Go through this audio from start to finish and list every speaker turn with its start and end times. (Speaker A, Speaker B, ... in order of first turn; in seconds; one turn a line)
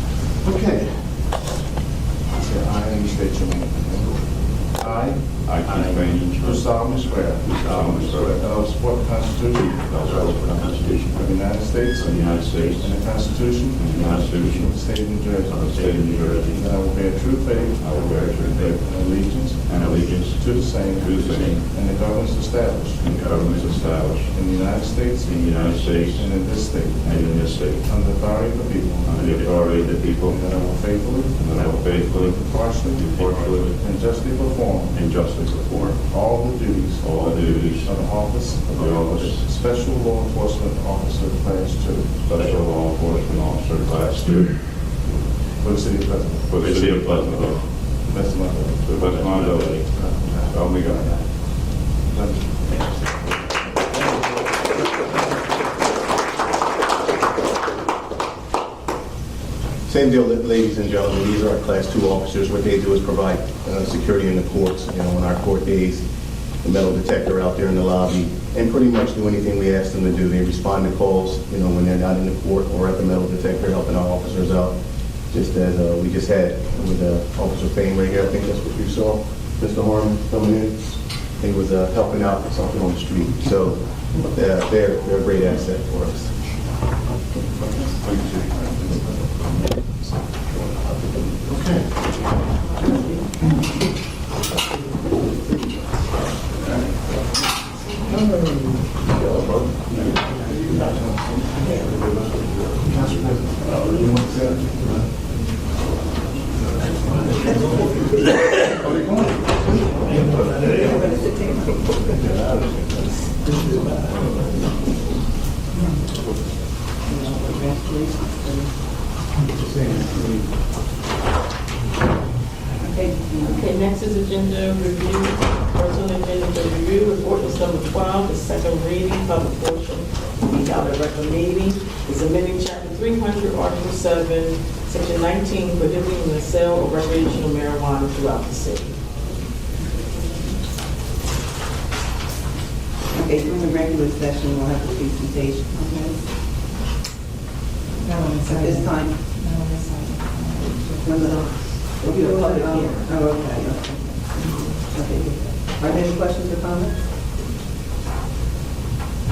Speaker A: 0.4-1.4
Speaker A: 2.3-10.2
Speaker B: 5.4-8.7
Speaker B: 9.8-14.7
Speaker A: 11.1-35.2
Speaker B: 15.5-16.6
Speaker B: 17.8-21.9
Speaker B: 23.0-28.0
Speaker B: 29.1-34.0
Speaker B: 34.9-36.0
Speaker A: 36.0-42.2
Speaker B: 37.0-39.5
Speaker B: 42.2-45.0
Speaker A: 45.6-48.8
Speaker B: 46.5-47.8
Speaker B: 48.8-49.8
Speaker A: 49.7-51.5
Speaker B: 50.4-51.2
Speaker A: 52.0-54.5
Speaker C: 59.9-66.0
Speaker C: 66.6-74.8
Speaker C: 75.3-86.4
Speaker A: 100.0-101.2
Speaker A: 102.9-105.0
Speaker A: 109.0-109.3
Speaker D: 110.6-111.8
Speaker D: 117.0-118.7
Speaker A: 119.6-120.5
Speaker D: 122.8-123.7
Speaker E: 123.4-139.0
Speaker D: 143.1-146.2
Speaker F: 148.1-151.4
Speaker D: 148.4-149.2
Speaker D: 150.8-157.0